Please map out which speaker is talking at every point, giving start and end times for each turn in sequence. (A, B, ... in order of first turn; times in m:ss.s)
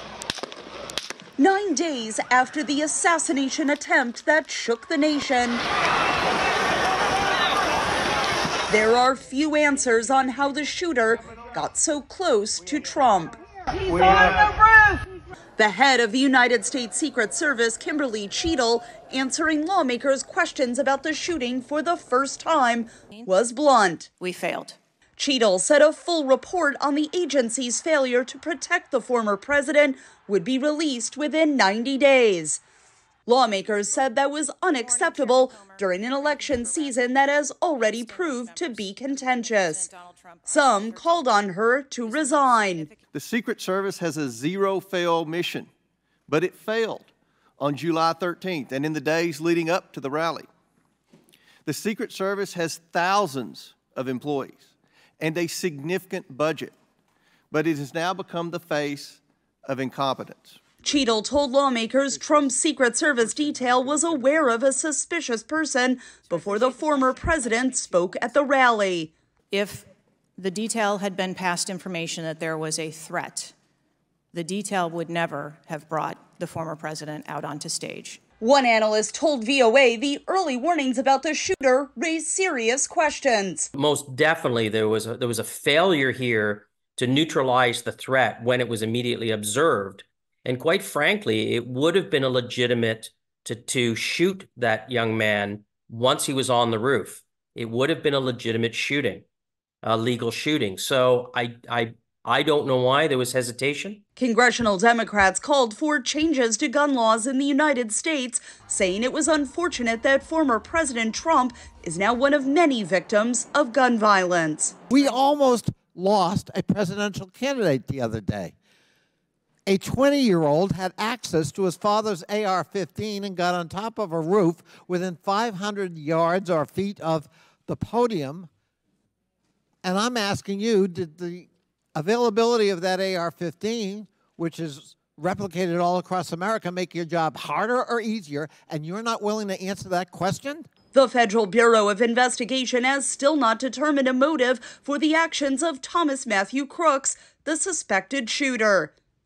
0:01.4-0:05.6 A
0:08.7-0:15.0 A
0:15.6-0:24.1 A
0:24.2-0:24.8 B
0:25.2-0:32.6 A
0:33.3-0:39.8 A
0:34.6-0:43.1 B
0:40.4-0:42.9 A
0:43.1-0:45.7 C
0:46.3-0:50.5 C
0:51.6-0:56.7 C
0:57.5-1:00.6 C
1:00.8-1:09.1 A
1:06.2-1:08.4 B
1:09.5-1:13.5 B
1:14.3-1:18.2 B
1:18.4-1:23.7 A
1:23.7-1:39.2 D
1:39.8-1:44.0 D
1:44.2-1:54.8 A
1:54.9-1:58.5 E
1:59.7-2:08.5 E
2:09.8-2:20.7 E
2:20.9-2:28.9 A